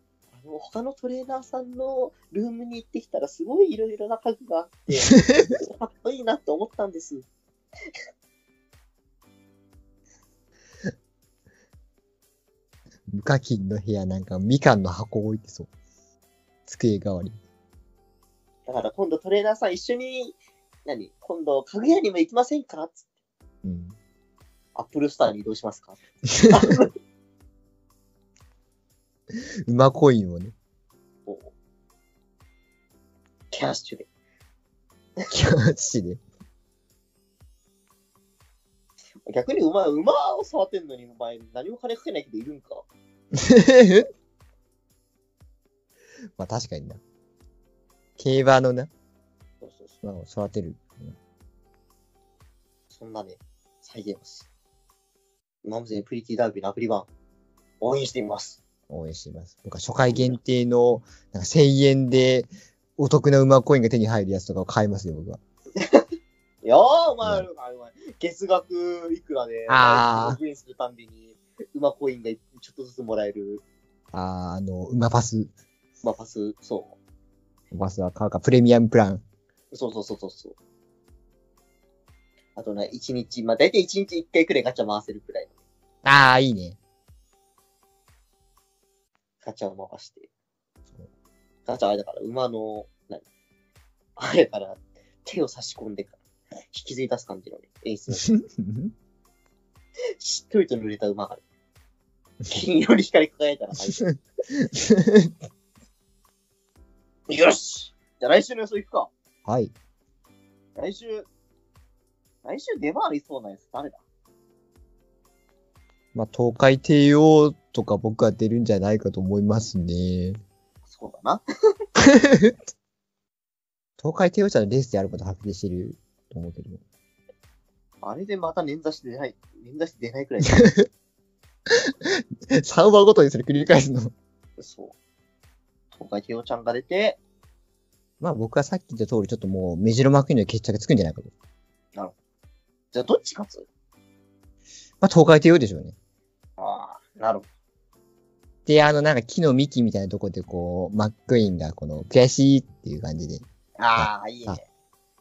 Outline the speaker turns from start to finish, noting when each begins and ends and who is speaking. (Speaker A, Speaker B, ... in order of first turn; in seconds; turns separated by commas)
Speaker A: 0.4-7.2, Speaker B: 5.1-5.5, Speaker B: 13.1-15.7, Speaker B: 16.7-17.4, Speaker A: 18.7-23.0, Speaker B: 23.6-23.9, Speaker A: 24.7-26.9, Speaker B: 26.3-26.8, Speaker B: 29.3-30.5, Speaker A: 31.3-31.5, Speaker A: 33.5-34.1, Speaker B: 35.3-36.2, Speaker A: 39.2-42.8, Speaker B: 43.3-44.1, Speaker B: 46.4-47.0, Speaker B: 48.2-48.9, Speaker A: 49.6-50.0, Speaker B: 50.0-51.1, Speaker A: 52.9-54.5, Speaker A: 55.6-57.1, Speaker A: 57.8-58.6, Speaker B: 58.9-65.4, Speaker A: 60.1-60.4, Speaker A: 65.7-66.0, Speaker A: 66.6-73.6, Speaker B: 69.7-70.4, Speaker B: 74.1-75.5, Speaker A: 76.0-77.0, Speaker B: 77.7-79.2, Speaker A: 79.7-80.5, Speaker A: 82.5-85.5, Speaker B: 86.0-86.8, Speaker A: 89.4-90.3, Speaker A: 91.7-93.2, Speaker A: 94.2-96.2, Speaker A: 96.7-98.3, Speaker B: 98.1-98.9, Speaker A: 100.2-101.4, Speaker A: 102.5-104.1, Speaker B: 103.9-105.3, Speaker A: 107.3-109.1, Speaker B: 109.4-109.7, Speaker A: 110.8-111.3, Speaker A: 112.4-114.0, Speaker B: 116.1-120.4, Speaker A: 120.8-121.4, Speaker B: 122.0-122.6, Speaker B: 124.0-126.8, Speaker A: 128.0-130.7, Speaker B: 130.5-130.8, Speaker B: 131.7-134.1, Speaker A: 134.6-134.9, Speaker A: 135.9-137.2, Speaker B: 138.2-141.3, Speaker A: 142.9-143.7, Speaker B: 145.0-145.9, Speaker A: 146.6-147.5, Speaker B: 148.7-154.6, Speaker A: 153.8-154.6